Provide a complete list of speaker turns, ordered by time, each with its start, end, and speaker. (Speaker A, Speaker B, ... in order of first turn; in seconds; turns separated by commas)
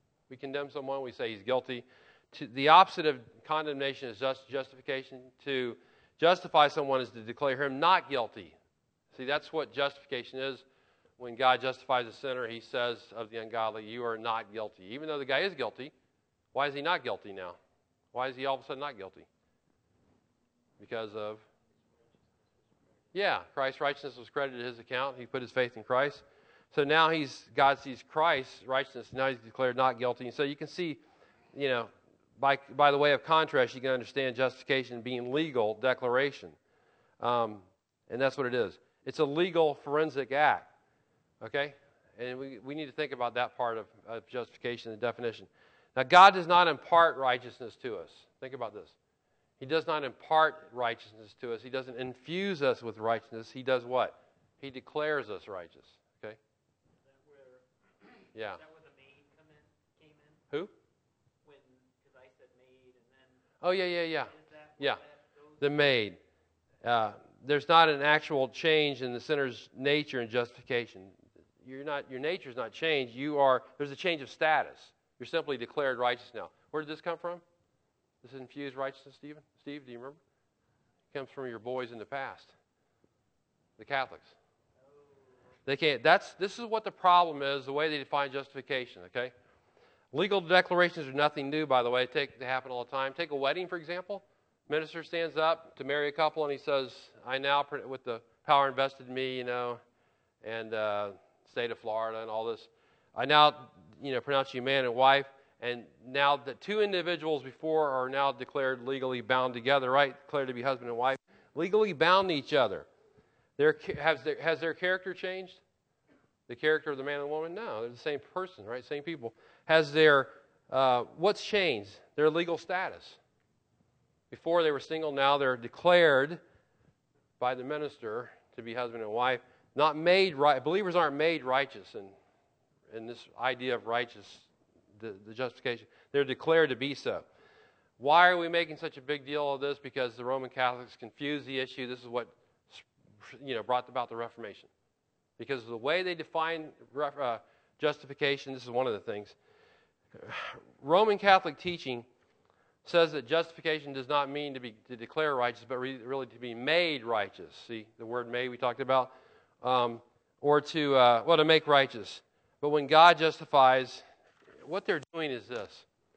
Speaker A: 0.3-8.6, Speaker A: 9.1-10.7, Speaker A: 11.2-15.9, Speaker A: 16.5-17.6, Speaker A: 18.1-19.3, Speaker A: 20.8-21.4, Speaker B: 21.6-23.1, Speaker A: 23.1-31.0, Speaker A: 31.5-36.6, Speaker A: 37.2-40.7, Speaker A: 41.4-49.0, Speaker A: 49.6-56.4, Speaker B: 56.9-60.5, Speaker A: 58.3-58.6, Speaker B: 61.4-65.7, Speaker A: 63.6-65.0, Speaker A: 65.6-66.2, Speaker A: 66.8-77.4, Speaker A: 78.2-80.2, Speaker A: 81.1-82.5, Speaker A: 83.8-84.3, Speaker B: 84.8-85.6, Speaker A: 85.7-89.3, Speaker A: 90.1-99.8, Speaker A: 100.4-112.9, Speaker A: 113.6-115.6, Speaker A: 116.5-123.2, Speaker A: 124.3-126.4, Speaker A: 127.4-132.2, Speaker A: 132.9-137.3, Speaker A: 138.0-144.7, Speaker A: 145.4-149.3, Speaker A: 150.1-152.1, Speaker A: 152.8-164.0, Speaker A: 164.6-165.9